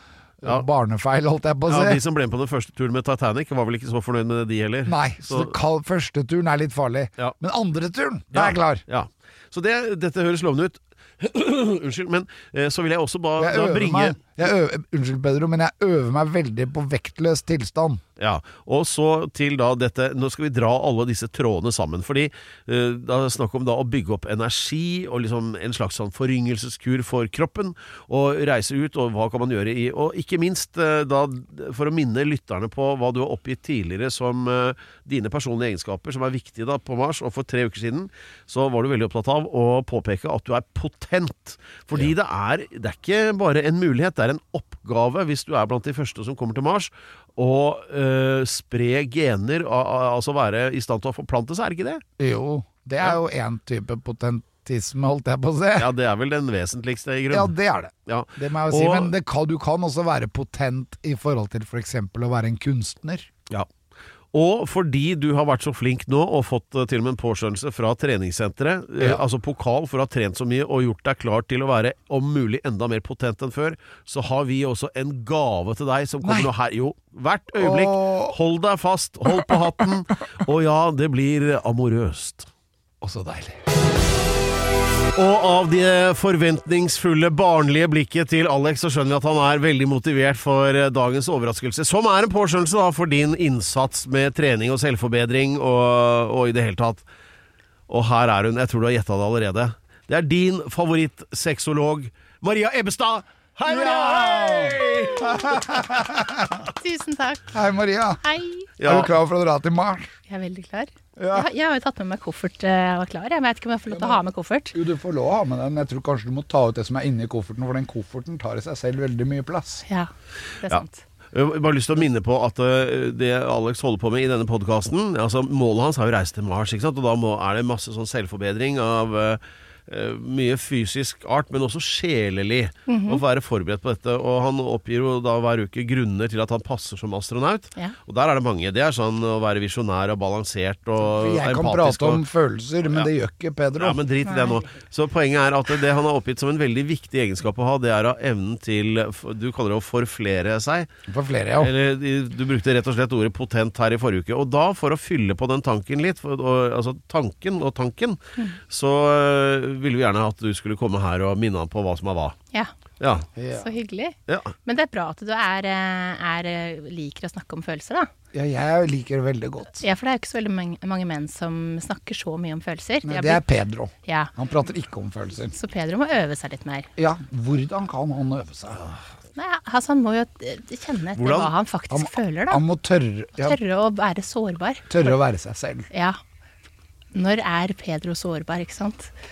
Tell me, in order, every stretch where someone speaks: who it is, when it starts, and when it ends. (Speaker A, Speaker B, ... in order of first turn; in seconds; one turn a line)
Speaker A: 0.4-2.0
Speaker B: 1.7-5.5
Speaker A: 4.8-8.8
Speaker B: 8.3-14.2
Speaker A: 13.4-18.0
Speaker B: 18.2-52.0
Speaker A: 52.2-55.9
Speaker B: 55.8-57.5
Speaker A: 57.3-63.3
Speaker B: 58.1-59.1
Speaker B: 64.3-82.5
Speaker A: 76.2-76.5
Speaker A: 77.6-78.4
Speaker A: 83.0-83.6
Speaker B: 85.1-97.0
Speaker B: 97.9-105.5
Speaker A: 103.6-106.7
Speaker C: 106.8-107.5
Speaker A: 107.5-108.2
Speaker C: 108.2-108.7
Speaker B: 108.8-109.1
Speaker A: 108.8-110.1
Speaker C: 110.3-114.8
Speaker A: 111.2-111.5
Speaker A: 113.9-119.8
Speaker C: 119.8-121.0
Speaker B: 121.3-142.2
Speaker C: 132.9-133.2
Speaker A: 141.0-144.0
Speaker B: 143.8-150.9
Speaker C: 144.2-144.6
Speaker A: 151.1-151.7
Speaker B: 151.6-162.3
Speaker B: 163.0-163.3
Speaker A: 163.3-163.7
Speaker C: 163.5-168.1
Speaker B: 164.3-164.5
Speaker A: 168.3-169.8
Speaker C: 169.8-173.4
Speaker A: 173.0-175.6
Speaker C: 174.0-174.3
Speaker C: 175.5-176.9
Speaker A: 177.0-178.9
Speaker C: 179.3-182.6
Speaker B: 181.2-181.5
Speaker A: 181.9-183.6
Speaker C: 183.4-185.1
Speaker A: 184.9-185.9
Speaker C: 185.9-186.2
Speaker C: 187.1-189.1